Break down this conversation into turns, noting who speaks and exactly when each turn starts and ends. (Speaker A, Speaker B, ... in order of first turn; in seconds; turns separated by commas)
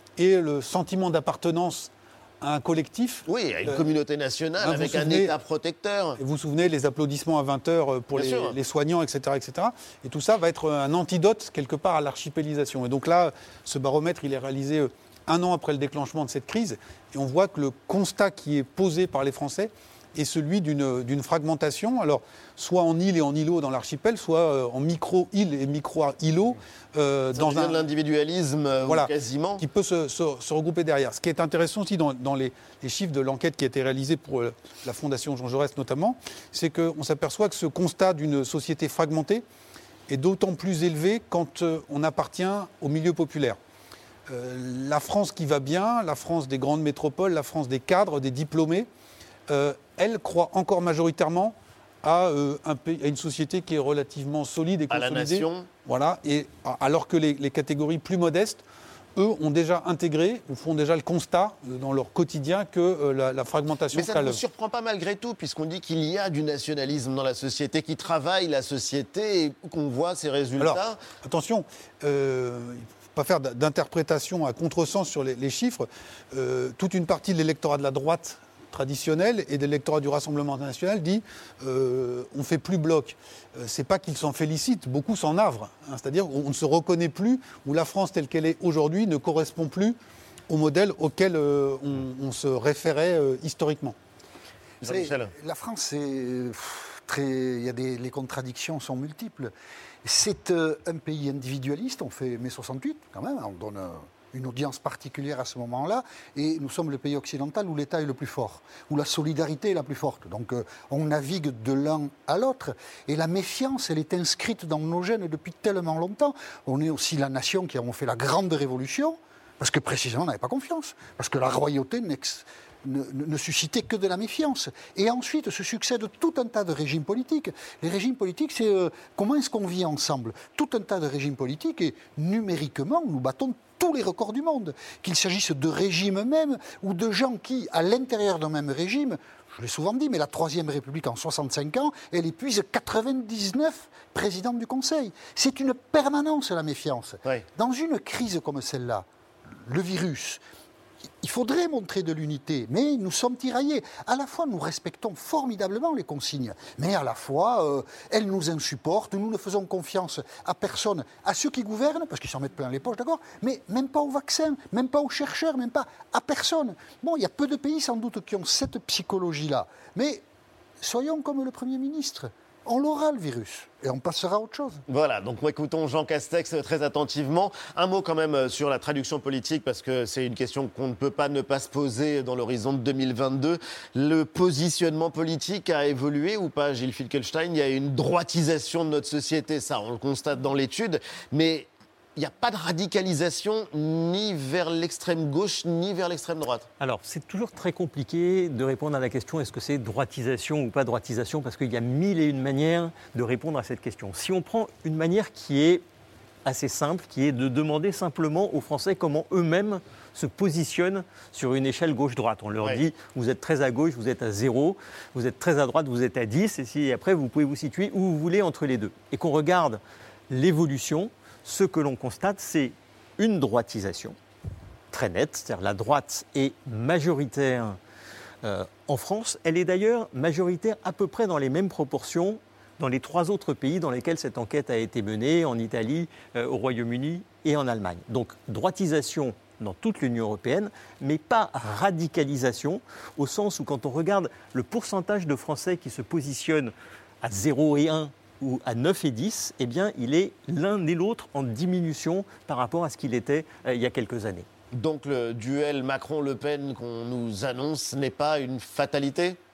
Speaker A: 0.2-3.9, Speaker B: 3.3-6.2, Speaker A: 4.6-5.3, Speaker A: 6.2-27.8, Speaker B: 8.1-8.5, Speaker B: 27.3-29.6, Speaker A: 28.8-39.4, Speaker A: 40.1-43.6, Speaker A: 44.3-48.9, Speaker A: 49.5-58.6, Speaker B: 54.9-55.7, Speaker A: 59.1-64.4, Speaker B: 63.9-71.0, Speaker A: 70.6-90.0, Speaker A: 90.5-94.0, Speaker B: 94.8-95.3, Speaker C: 94.8-99.5, Speaker C: 100.0-150.4, Speaker C: 151.2-170.2, Speaker C: 170.8-174.8, Speaker B: 174.9-196.7, Speaker D: 196.8-205.8, Speaker D: 206.4-224.2, Speaker D: 224.9-227.8, Speaker D: 228.4-254.4, Speaker B: 254.7-259.4